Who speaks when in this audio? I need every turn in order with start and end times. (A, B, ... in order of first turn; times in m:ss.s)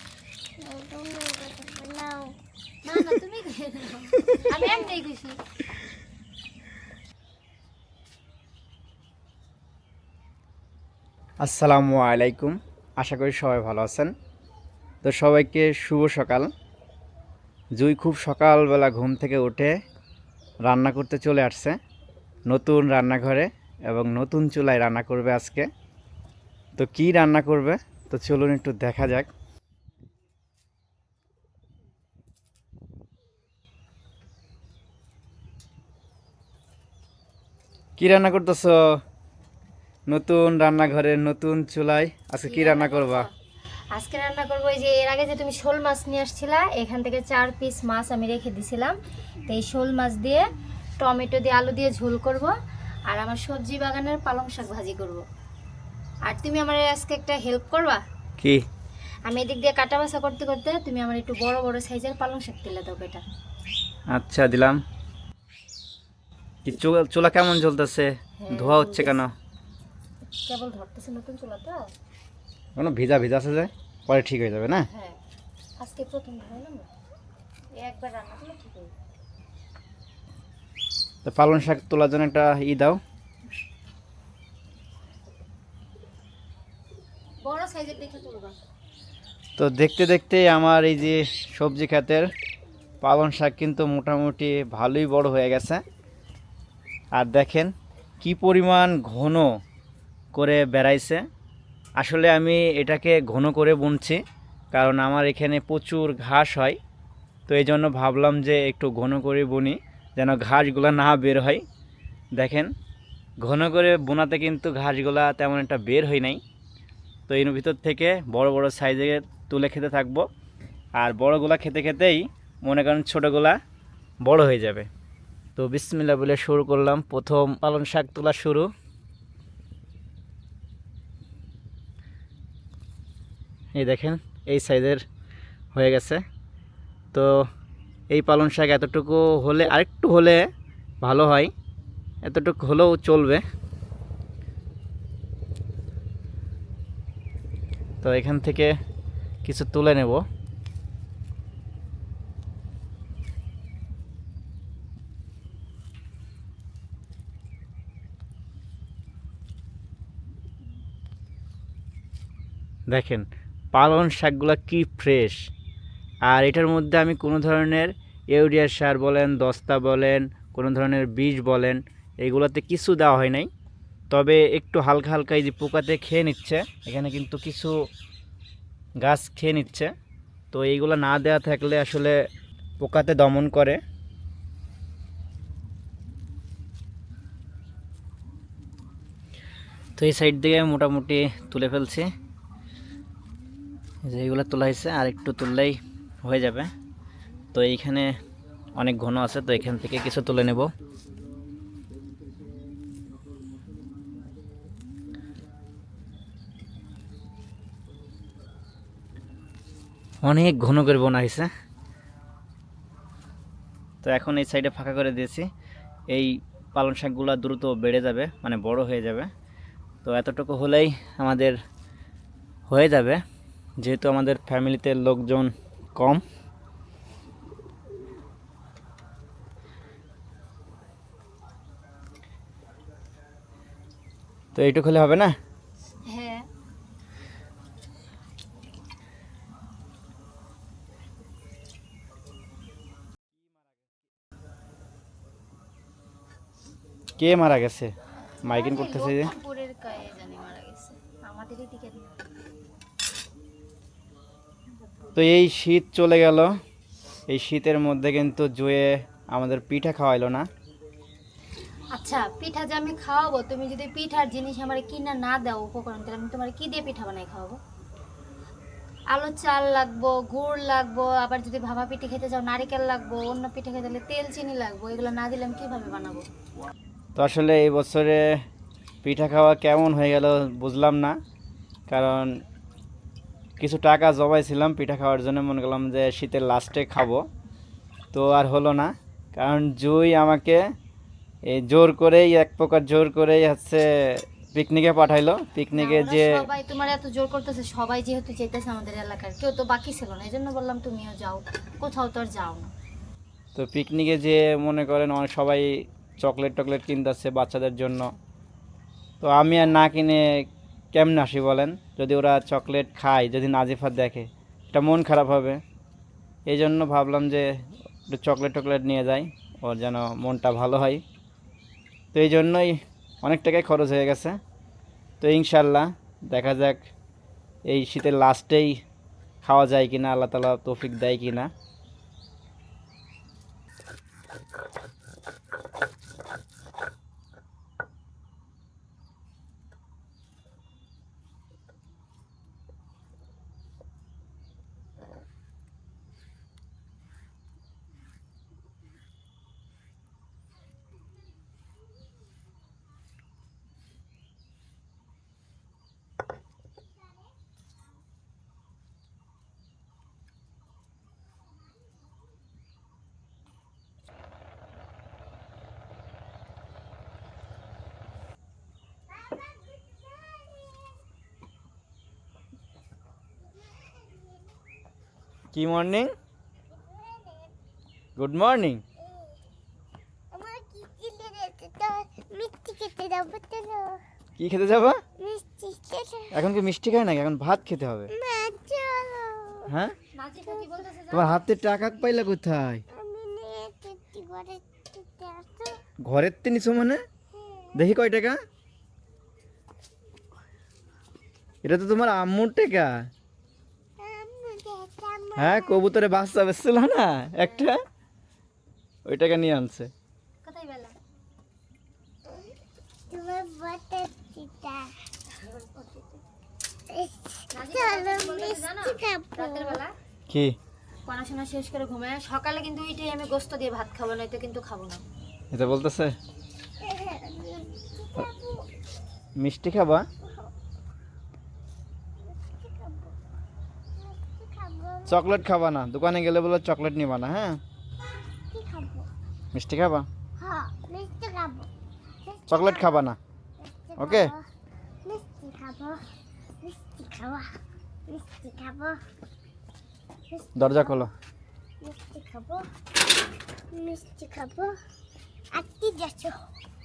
0:00.6-0:02.3 A
0:02.8-0:05.4 B
0:11.4-0:14.1 C
0:15.0-0:16.5 C
0:17.7-0:19.7 C
0:20.6-0:21.8 C
0:22.5-0:25.7 C
0:26.8-0:29.3 C
0:38.0-0:38.8 C
0:40.1-0:43.3 C
0:42.4-0:43.3 B
0:43.9-0:48.9 B
0:49.5-0:50.4 B
0:51.0-0:52.5 B
0:53.1-0:55.2 B
0:56.2-0:58.0 B
0:59.2-1:03.2 B
1:04.1-1:04.8 C
1:06.6-1:09.3 C
1:08.4-1:09.2 B
1:10.4-1:11.9 B
1:12.8-1:14.8 C
1:14.9-1:15.2 B
1:15.8-1:16.9 B
1:17.8-1:18.9 B
1:21.2-1:23.0 C
1:27.4-1:28.6 B
1:29.6-1:32.3 C
1:33.0-1:35.8 C
1:37.1-1:39.5 C
1:40.3-1:41.2 C
1:42.0-1:44.2 C
1:44.7-1:46.8 C
1:47.5-1:51.6 C
1:52.3-1:52.7 C
1:53.4-1:56.4 C
1:57.3-2:00.3 C
2:01.0-2:03.6 C
2:04.2-2:04.9 C
2:05.6-2:08.7 C
2:13.7-2:15.0 C
2:15.7-2:16.2 C
2:18.1-2:20.5 C
2:21.0-2:21.5 C
2:22.2-2:23.4 C
2:28.0-2:28.7 C
2:29.4-2:30.2 C
2:42.9-2:45.4 C
2:46.3-2:53.5 C
2:54.1-2:57.7 C
2:59.0-2:59.9 C
3:00.5-3:02.2 C
3:02.8-3:03.8 C
3:10.0-3:12.0 C
3:14.0-3:16.7 C
3:17.5-3:18.1 C
3:18.8-3:20.7 C
3:30.2-3:31.5 C
3:34.0-3:35.4 C
3:36.1-3:39.3 C
3:40.0-3:41.6 C
3:42.7-3:43.2 C
3:43.8-3:46.2 C
3:54.5-3:55.3 C
3:56.1-3:56.4 B
4:07.2-4:07.9 C
4:08.4-4:09.3 C
4:08.4-4:12.1 B
4:15.1-4:16.5 C
4:17.3-4:20.5 C
4:21.9-4:27.6 B
4:29.1-4:36.2 B
4:37.2-4:38.2 C
4:39.0-4:41.2 C
4:41.9-4:42.3 C
4:43.6-4:47.2 C
4:48.1-4:50.6 C
4:51.5-4:56.4 C
4:55.7-5:02.7 B
5:03.5-5:08.1 C
5:09.2-5:15.6 C
5:16.5-5:21.0 C
5:22.1-5:24.4 C
5:25.2-5:26.8 C
5:27.7-5:28.8 C
5:29.4-5:31.5 C
6:09.1-6:11.0 A
6:13.6-6:14.4 A
6:15.5-6:16.1 C
6:16.8-6:17.5 A
6:18.2-6:18.8 C
6:20.3-6:24.0 A
6:24.4-6:25.0 C
6:25.2-6:26.3 A
6:26.3-6:28.1 C
6:28.1-6:29.7 A
6:29.7-6:29.9 C
6:30.1-6:31.5 B
6:31.1-6:32.8 C
6:33.0-6:35.8 A
6:36.0-6:37.0 C
6:37.4-6:37.7 A
6:37.7-6:38.4 C
6:41.6-6:42.9 C
6:44.0-6:45.8 A
6:45.4-6:47.7 C
6:49.0-6:49.9 C
6:50.4-6:50.9 B
6:53.1-6:54.9 A
6:55.3-6:56.2 B
6:56.9-6:59.8 A
6:57.5-6:59.9 B
7:00.3-7:00.6 C
7:01.0-7:05.0 B
7:05.5-7:06.1 C
7:06.8-7:08.6 A
7:09.4-7:10.0 C
7:12.3-7:13.1 A
7:14.0-7:15.2 A
7:15.1-7:17.6 C
7:18.5-7:19.1 A
7:19.5-7:20.1 C
7:20.4-7:21.7 A
7:22.2-7:22.9 A
7:22.5-7:23.2 C
7:23.6-7:24.4 A
7:24.0-7:24.3 C
7:25.0-7:26.0 A
7:26.6-7:27.5 A
7:28.1-7:29.0 A
7:30.3-7:30.9 A
7:30.6-7:31.1 C
7:31.8-7:32.6 A
7:33.7-7:34.8 A
7:35.5-7:36.4 A